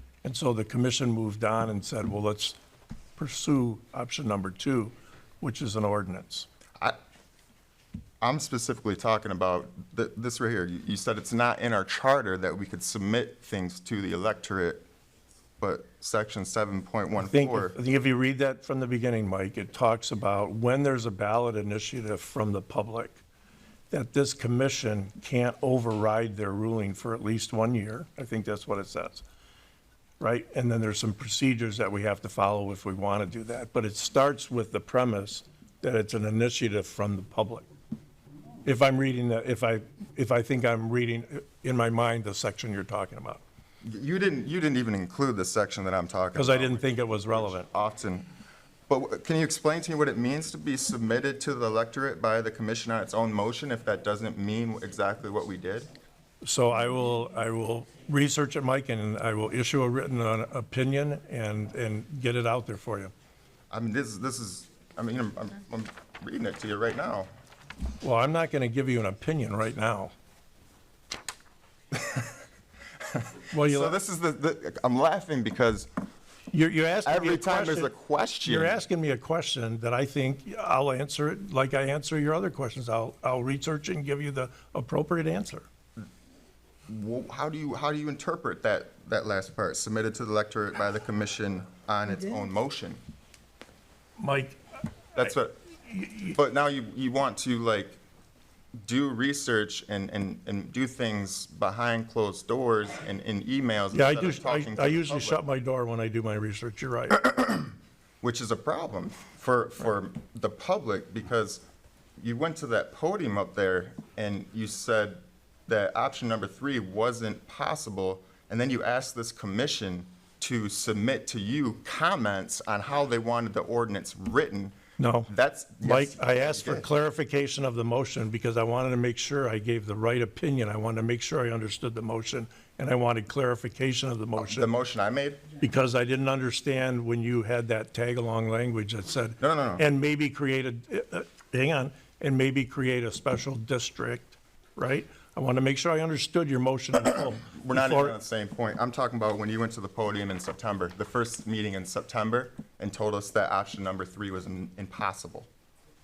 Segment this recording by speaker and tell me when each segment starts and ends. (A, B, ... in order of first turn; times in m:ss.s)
0:00.2-0:02.6 A
0:03.2-0:06.5 A
0:08.2-0:14.8 B
0:15.6-0:17.8 B
0:17.2-0:23.2 A
0:23.9-0:29.2 A
0:30.2-0:37.7 A
0:38.6-0:43.4 A
0:43.8-0:48.3 B
0:46.4-0:47.7 A
0:48.9-0:55.9 B
0:56.4-1:03.1 A
1:03.7-1:07.3 B
1:08.0-1:10.1 A
1:13.1-1:15.9 B
1:13.5-1:14.0 A
1:16.5-1:17.9 A
1:17.1-1:18.8 B
1:18.4-1:25.7 A
1:26.9-1:33.0 B
1:34.2-1:34.6 A
1:35.2-1:35.6 B
1:35.9-1:36.3 A
1:36.3-1:38.0 B
1:38.8-1:45.4 B
1:43.9-1:47.2 A
1:47.2-1:51.6 B
1:52.2-2:04.8 B
2:05.0-2:05.3 A
2:05.3-2:06.9 B
2:05.8-2:14.7 A
2:14.4-2:15.4 B
2:15.6-2:28.2 A
2:19.4-2:19.8 B
2:27.4-2:35.5 B